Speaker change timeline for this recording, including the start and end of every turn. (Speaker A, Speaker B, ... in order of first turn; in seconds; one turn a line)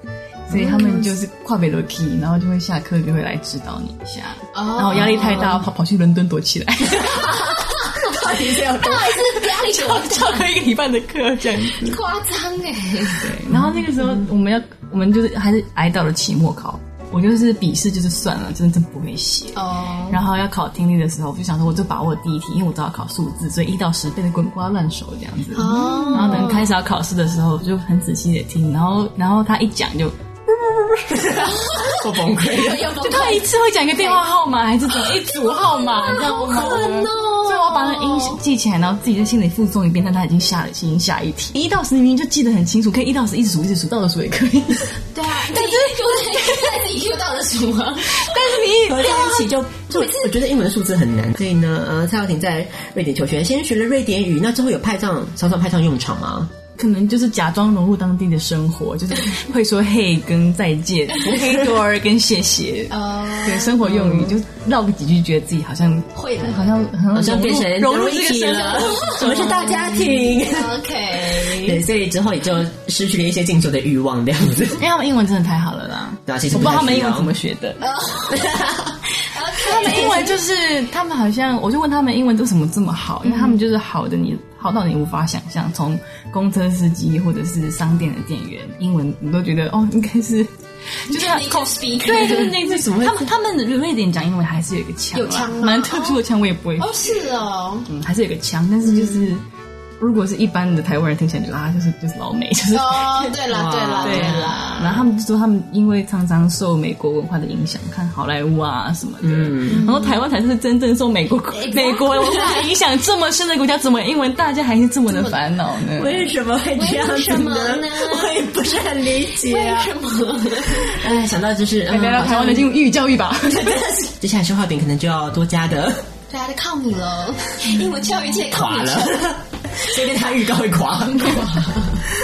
Speaker A: 0.5-12.0
Speaker B: 0.5-1.0
Speaker B: 4.5-5.6
Speaker B: 7.0-10.5
Speaker C: 8.2-8.7
Speaker B: 11.7-13.3
Speaker A: 13.2-30.9
Speaker B: 19.5-20.2
Speaker B: 25.5-26.7
Speaker C: 31.1-32.9
Speaker B: 31.3-34.2
Speaker A: 33.0-46.9
Speaker B: 34.9-38.4
Speaker B: 45.1-50.3
Speaker A: 48.1-49.4
Speaker C: 48.9-56.5
Speaker A: 56.8-69.9
Speaker B: 62.9-64.2
Speaker B: 66.1-66.9
Speaker C: 67.1-74.8
Speaker B: 69.2-71.8
Speaker A: 74.8-77.8
Speaker C: 76.2-77.3
Speaker B: 77.8-78.7
Speaker C: 78.3-78.9
Speaker B: 79.2-80.4
Speaker A: 79.6-90.5
Speaker B: 83.2-83.6
Speaker A: 91.0-97.2
Speaker B: 91.1-93.1
Speaker B: 95.1-96.2
Speaker B: 96.8-97.9
Speaker A: 97.9-99.4
Speaker B: 98.8-99.3
Speaker A: 100.0-103.4
Speaker B: 102.7-105.0
Speaker C: 103.5-104.6
Speaker A: 104.0-116.3
Speaker C: 109.2-109.9
Speaker B: 109.7-110.2
Speaker B: 111.5-112.7
Speaker B: 115.1-115.4
Speaker C: 116.0-119.9
Speaker B: 116.8-118.6
Speaker B: 119.2-121.1
Speaker C: 120.5-122.7
Speaker A: 121.9-123.8
Speaker C: 123.4-126.1
Speaker B: 126.3-129.3
Speaker C: 128.4-131.8
Speaker B: 131.1-132.0